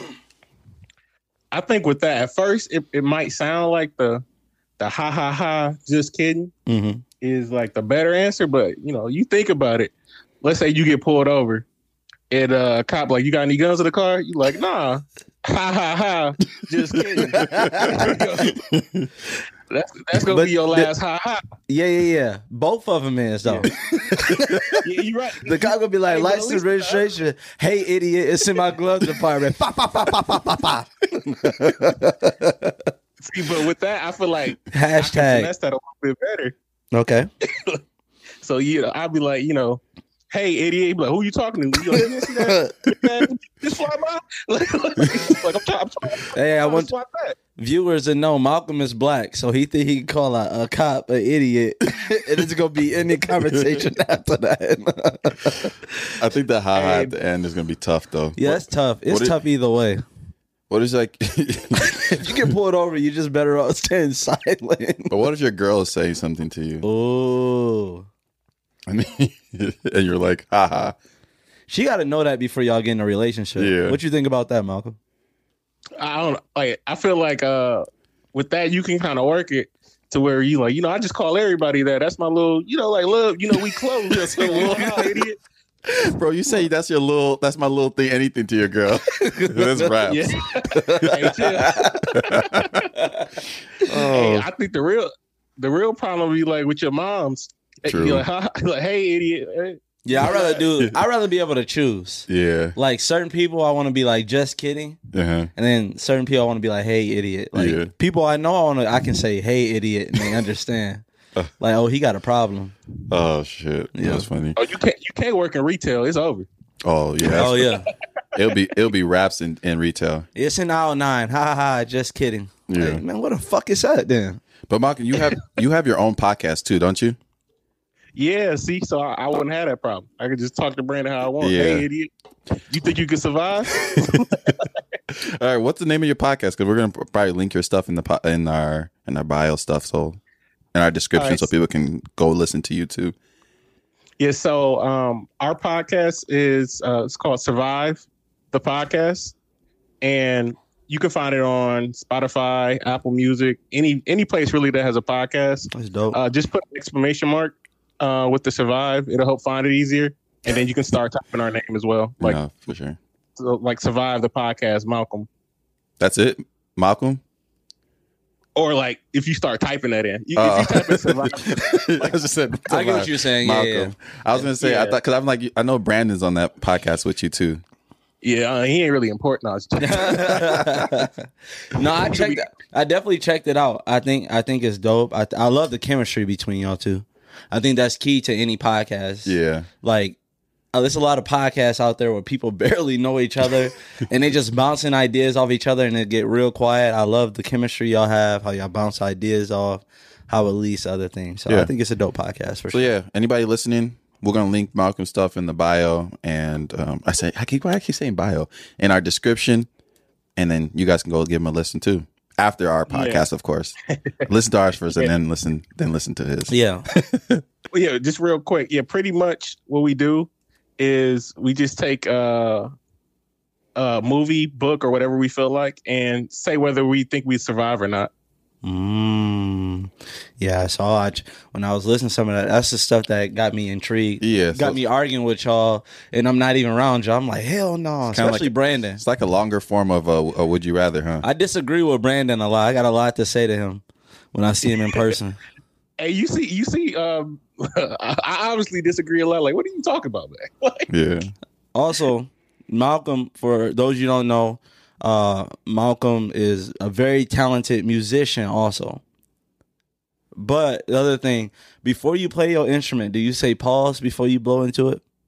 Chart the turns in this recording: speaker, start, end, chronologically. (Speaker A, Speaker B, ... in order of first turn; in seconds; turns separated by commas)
Speaker A: 1.5-4.2, Speaker A: 4.8-6.5, Speaker B: 6.7-7.0, Speaker A: 7.2-11.7, Speaker A: 12.3-18.6, Speaker B: 17.1-18.1, Speaker C: 17.2-19.1, Speaker A: 19.7-21.4, Speaker B: 20.2-20.9, Speaker B: 21.7-24.8, Speaker A: 24.8-27.1, Speaker B: 25.4-32.9, Speaker A: 33.2-36.5, Speaker B: 34.7-35.5, Speaker B: 36.9-37.3, Speaker A: 37.5-37.8, Speaker A: 38.4-47.4, Speaker B: 41.9-43.1, Speaker B: 46.3-46.9, Speaker B: 47.6-56.1, Speaker C: 56.2-59.4, Speaker A: 56.7-57.1, Speaker B: 58.4-60.0, Speaker C: 60.7-62.3, Speaker B: 61.9-65.2, Speaker C: 65.1-66.8, Speaker B: 66.8-68.1, Speaker C: 68.9-70.9, Speaker B: 71.7-75.0, Speaker C: 73.6-74.0, Speaker A: 76.0-85.4, Speaker C: 84.1-85.1, Speaker C: 85.9-90.3, Speaker B: 89.1-89.9, Speaker A: 90.0-92.9, Speaker B: 90.6-92.2, Speaker C: 91.0-92.9, Speaker B: 92.9-93.3, Speaker C: 93.8-94.5, Speaker A: 94.1-100.3, Speaker C: 97.9-98.2, Speaker B: 100.0-105.0, Speaker C: 100.2-101.0, Speaker C: 102.3-102.8, Speaker C: 105.1-105.5, Speaker B: 105.5-111.0, Speaker C: 107.5-107.9, Speaker B: 111.6-112.7, Speaker C: 113.1-114.6, Speaker B: 113.9-114.3, Speaker A: 114.5-116.5, Speaker C: 116.8-117.8, Speaker B: 117.3-117.9, Speaker C: 118.3-120.3, Speaker B: 120.3-124.4, Speaker C: 122.7-123.0, Speaker C: 124.7-127.2, Speaker A: 128.1-132.1, Speaker C: 131.4-131.9, Speaker A: 132.7-134.7, Speaker C: 133.9-134.6, Speaker C: 135.1-140.2, Speaker C: 140.7-143.1, Speaker A: 141.2-141.5, Speaker A: 144.2-149.3, Speaker A: 150.0-162.4, Speaker B: 155.7-156.2, Speaker C: 162.2-163.0, Speaker A: 163.4-165.3, Speaker C: 166.0-167.2, Speaker A: 168.6-171.6, Speaker C: 170.3-177.6, Speaker B: 172.7-173.9, Speaker A: 174.4-175.0, Speaker A: 178.2-180.6, Speaker B: 179.8-190.2, Speaker A: 182.0-182.4, Speaker C: 189.2-189.7, Speaker B: 190.7-202.9, Speaker C: 202.7-209.7, Speaker C: 210.4-213.7, Speaker A: 212.9-213.2, Speaker C: 214.2-217.4, Speaker B: 216.5-216.8, Speaker A: 217.7-222.7, Speaker A: 223.8-228.1, Speaker B: 228.6-239.0, Speaker C: 234.2-234.8, Speaker C: 238.1-241.2, Speaker B: 241.2-245.4, Speaker A: 246.0-250.9, Speaker C: 250.9-251.3, Speaker B: 251.7-259.0, Speaker B: 260.3-265.0